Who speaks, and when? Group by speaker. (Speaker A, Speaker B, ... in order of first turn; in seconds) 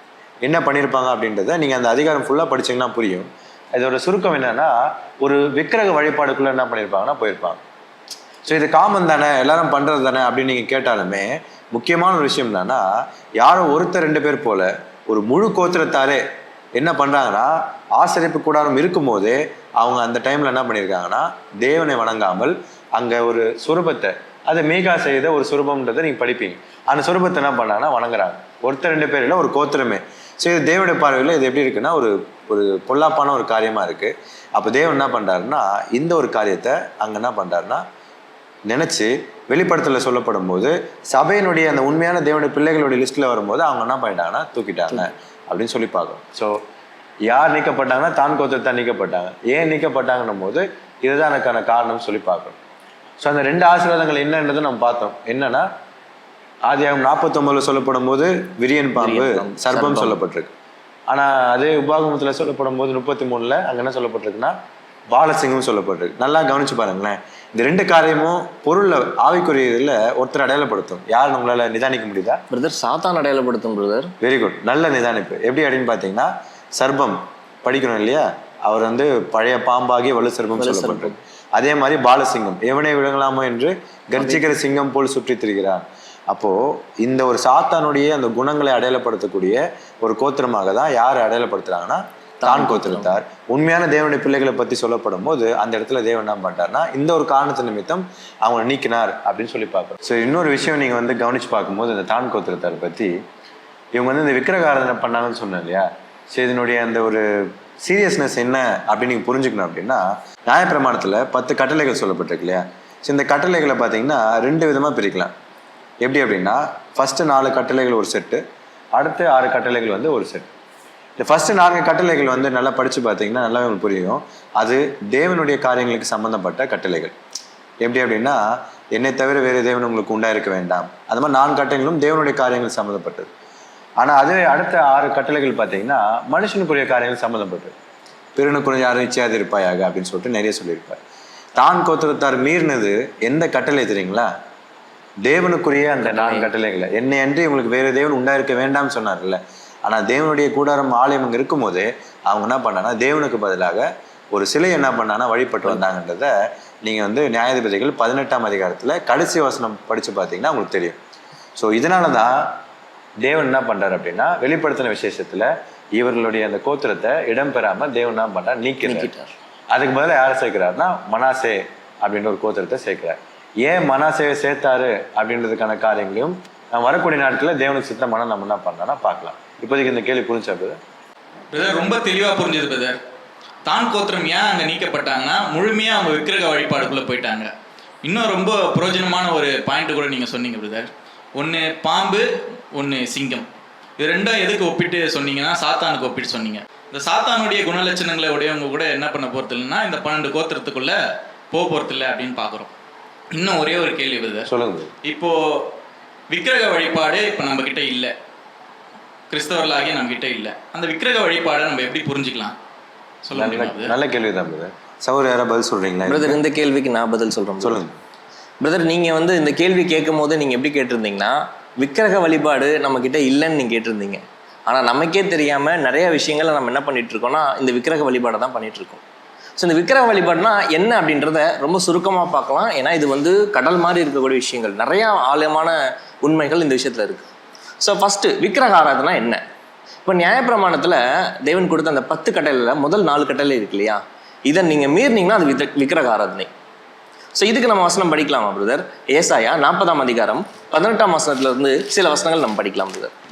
Speaker A: 0.4-7.6, 8.4-16.2, 16.7-37.8, 38.7-46.6, 47.3-52.6, 53.2-55.7, 56.6-60.5, 61.1-64.5, 65.1-72.4, 74.2-103.1, 103.9-115.3, 116.0-118.4, 118.9-120.5, 121.2-127.1, 127.8-128.4, 128.9-133.3, 134.0-137.7, 138.3-141.0, 141.6-144.3, 145.2-156.3, 156.8-161.0, 161.6-162.6, 163.2-169.1, 169.7-180.8, 204.5-204.9, 213.3-216.4, 217.6-217.9
Speaker B: 59.0-60.2, 72.5-74.1, 80.6-81.2, 84.1-84.4, 92.4-93.1, 146.0-146.5, 168.8-169.3, 216.1-217.8, 218.6-229.0, 229.6-237.3, 237.8-239.4, 240.0-246.5, 247.3-253.1
Speaker C: 181.5-183.0, 183.6-187.5, 188.0-193.5, 194.0-201.0, 201.5-202.7, 203.3-204.5, 205.0-205.7, 206.3-208.1, 209.3-212.6, 213.2-213.9